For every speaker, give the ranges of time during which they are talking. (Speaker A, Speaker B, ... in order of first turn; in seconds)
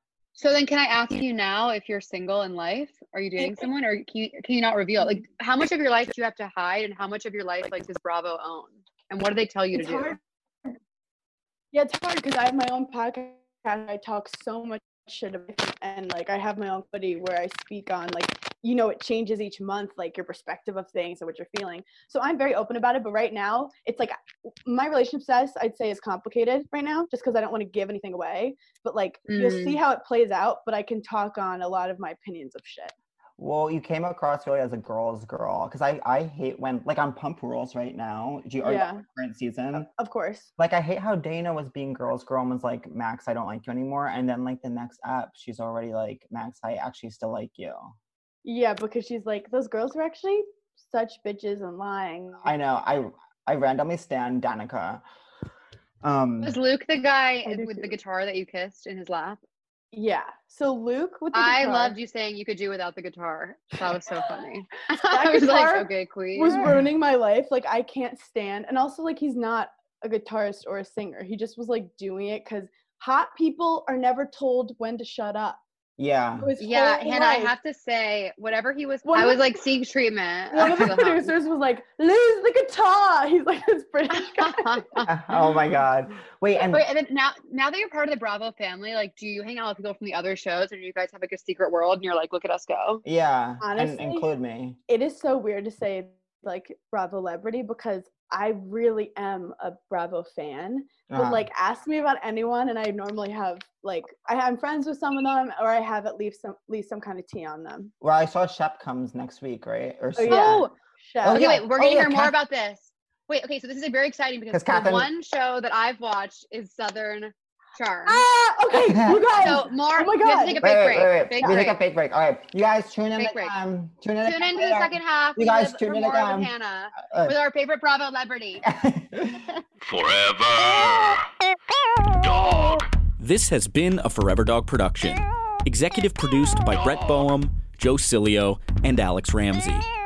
Speaker A: 0.4-10.2, 29.3-29.8, 56.4-59.4, 61.3-66.7, 76.6-81.3, 84.4-85.1, 86.6-93.0, 110.3-110.7, 111.2-118.2, 119.4-121.8, 123.2-123.5, 124.2-128.7
Speaker B: 3.4-3.7, 9.7-10.2, 11.7-32.9, 38.6-39.0, 39.7-40.5, 48.4-52.5, 57.4-57.9, 59.9-62.0, 65.0-75.6, 76.4-77.5, 79.0-79.5, 80.5-84.8, 93.6-94.2, 94.9-107.9, 110.2-111.5, 118.1-120.6, 121.4-121.6
Speaker C: 33.4-39.9, 40.6-48.0, 52.4-55.0, 56.0-56.6, 76.0-76.5, 85.0-86.9, 93.0-94.8, 101.1-101.5, 108.0-110.7, 111.2-112.3, 114.5-115.1, 118.9-119.6, 120.6-126.5, 127.0-127.4, 128.6-129.5
Speaker D: 129.8-131.2, 132.2-132.9
Speaker E: 133.2-139.9